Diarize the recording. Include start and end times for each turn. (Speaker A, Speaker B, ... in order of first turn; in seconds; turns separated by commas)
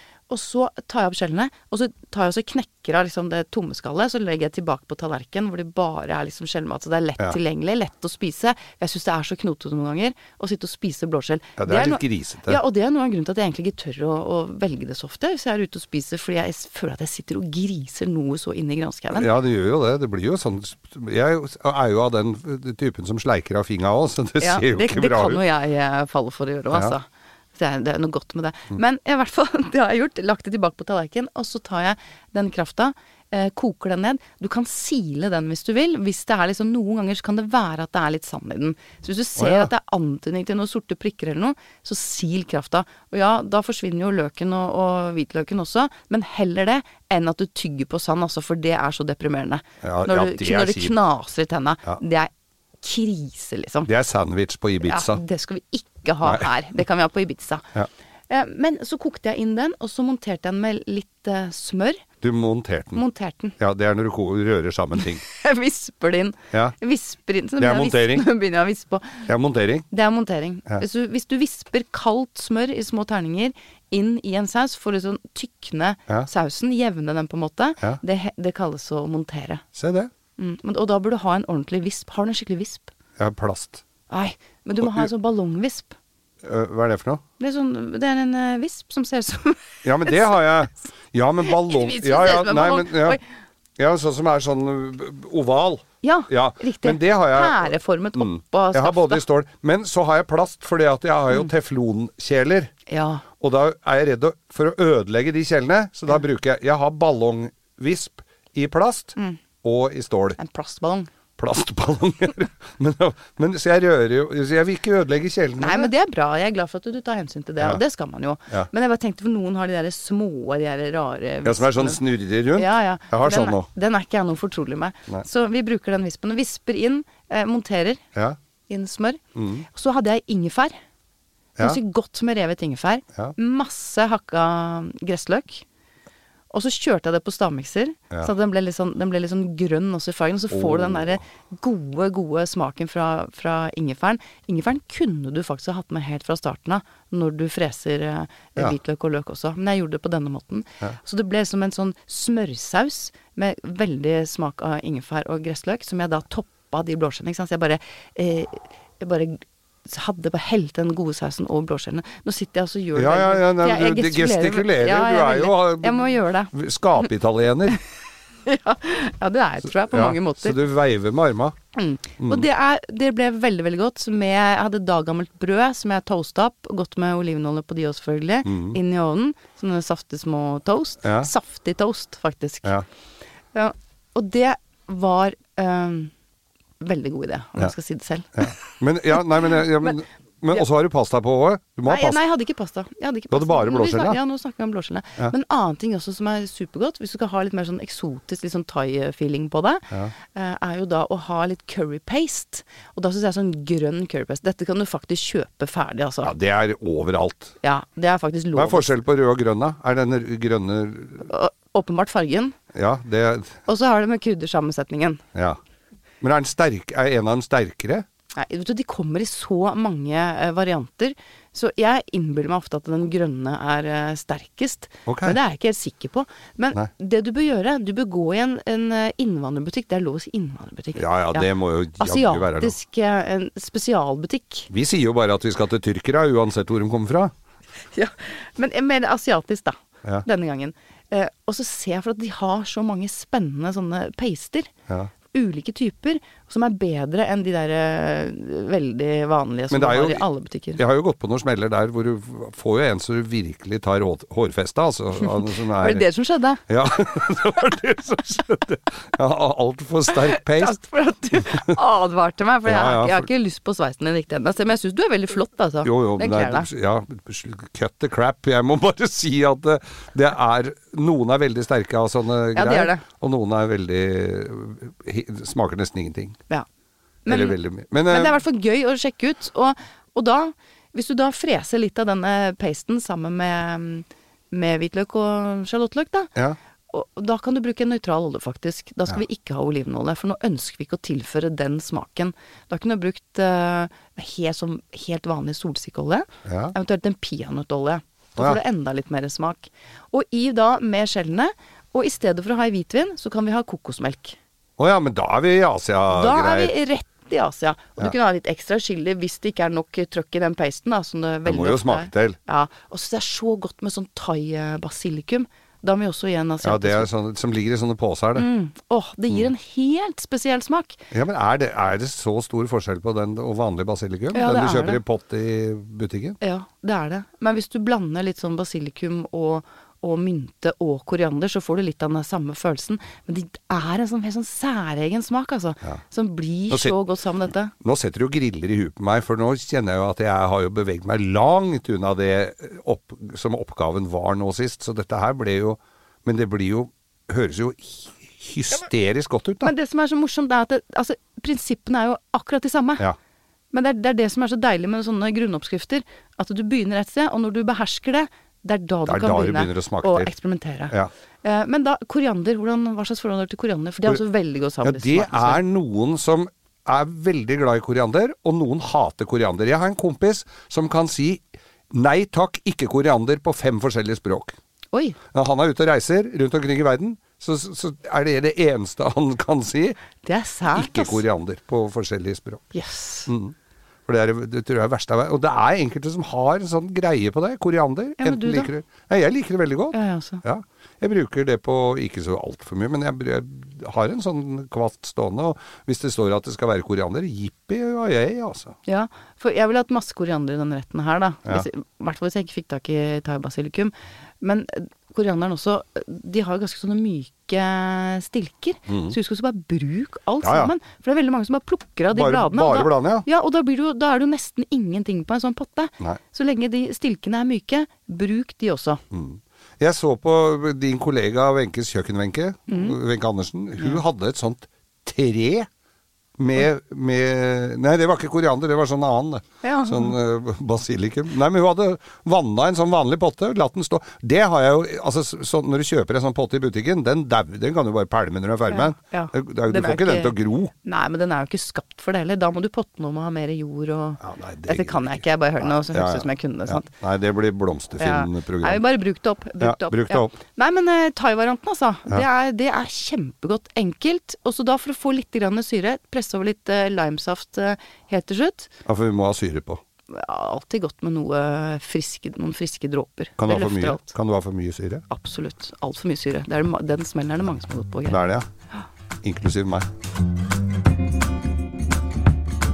Speaker A: 0.3-19.3, Speaker B: 11.6-12.6, Speaker B: 19.1-25.4, Speaker A: 24.4-27.0, Speaker A: 27.6-52.3, Speaker B: 39.4-39.7, Speaker B: 49.8-51.0, Speaker A: 52.8-53.9, Speaker B: 53.9-55.2, Speaker A: 54.8-57.6, Speaker A: 58.3-62.0, Speaker B: 62.2-63.0, Speaker A: 62.9-63.5, Speaker B: 63.6-65.2, Speaker A: 65.2-69.3, Speaker B: 67.6-68.2, Speaker B: 69.3-69.9, Speaker A: 69.9-79.6, Speaker B: 79.7-80.1, Speaker A: 80.4-82.9, Speaker B: 83.2-83.8, Speaker A: 84.1-86.0, Speaker B: 86.4-87.2, Speaker A: 87.4-90.4, Speaker B: 89.8-93.2, Speaker A: 91.4-93.2, Speaker B: 93.8-102.7, Speaker A: 96.0-99.2, Speaker A: 102.9-103.2, Speaker B: 103.4-110.4, Speaker A: 110.4-111.1, Speaker B: 111.4-115.9, Speaker A: 115.6-128.0, Speaker B: 121.4-123.7, Speaker A: 128.7-130.8, Speaker B: 129.3-129.7, Speaker A: 131.6-135.6, Speaker A: 136.5-166.5, Speaker B: 140.5-141.2, Speaker B: 162.9-167.8, Speaker A: 168.4-170.6, Speaker B: 169.9-171.6, Speaker A: 171.7-182.7, Speaker B: 172.2-172.4, Speaker B: 178.4-178.8, Speaker B: 181.0-181.3, Speaker A: 183.5-186.1, Speaker A: 186.8-188.7, Speaker B: 188.4-192.2, Speaker A: 189.5-189.9, Speaker A: 191.9-206.3, Speaker B: 193.3-194.2, Speaker B: 206.2-207.5, Speaker A: 207.6-208.9, Speaker B: 208.5-211.3, Speaker A: 211.2-212.6, Speaker B: 212.7-213.6, Speaker A: 213.7-215.2, Speaker B: 215.3-215.6, Speaker B: 216.2-218.0, Speaker A: 218.3-234.7, Speaker B: 225.1-225.4, Speaker B: 231.0-232.7, Speaker B: 234.7-237.3, Speaker A: 237.9-244.7, Speaker A: 245.3-250.8, Speaker B: 249.7-256.0, Speaker A: 255.2-256.6, Speaker B: 256.7-260.8, Speaker A: 260.1-266.7, Speaker B: 261.4-261.8, Speaker B: 262.6-263.3, Speaker B: 265.8-276.4, Speaker A: 272.5-273.0, Speaker A: 277.2-277.6, Speaker B: 277.3-278.4, Speaker A: 278.1-286.3, Speaker A: 286.9-304.4, Speaker B: 296.4-296.7, Speaker B: 304.8-306.7, Speaker A: 306.1-317.1, Speaker B: 311.4-312.4, Speaker B: 316.6-318.5, Speaker A: 318.4-321.0, Speaker B: 321.1-326.4, Speaker A: 324.3-325.0, Speaker A: 326.4-337.7, Speaker B: 336.7-336.9, Speaker B: 337.8-349.7, Speaker A: 349.6-353.0, Speaker A: 353.7-365.6, Speaker B: 359.1-360.3, Speaker B: 364.8-374.6, Speaker B: 375.3-379.9, Speaker A: 380.2-381.2, Speaker B: 380.7-382.6, Speaker A: 382.7-383.3, Speaker B: 383.3-383.5, Speaker B: 384.1-398.8, Speaker A: 388.2-388.7, Speaker A: 389.9-390.4, Speaker A: 398.9-419.0, Speaker B: 408.9-409.1, Speaker B: 410.4-410.7, Speaker B: 412.1-413.2, Speaker B: 419.1-425.7, Speaker A: 422.7-423.0, Speaker B: 426.4-440.7, Speaker A: 429.6-430.1, Speaker A: 438.7-446.9, Speaker B: 444.2-448.8, Speaker A: 448.0-458.7, Speaker B: 449.6-450.3, Speaker B: 458.8-459.8, Speaker A: 460.1-464.1, Speaker B: 463.4-465.0, Speaker A: 465.1-468.2, Speaker B: 468.1-468.4, Speaker B: 469.2-469.9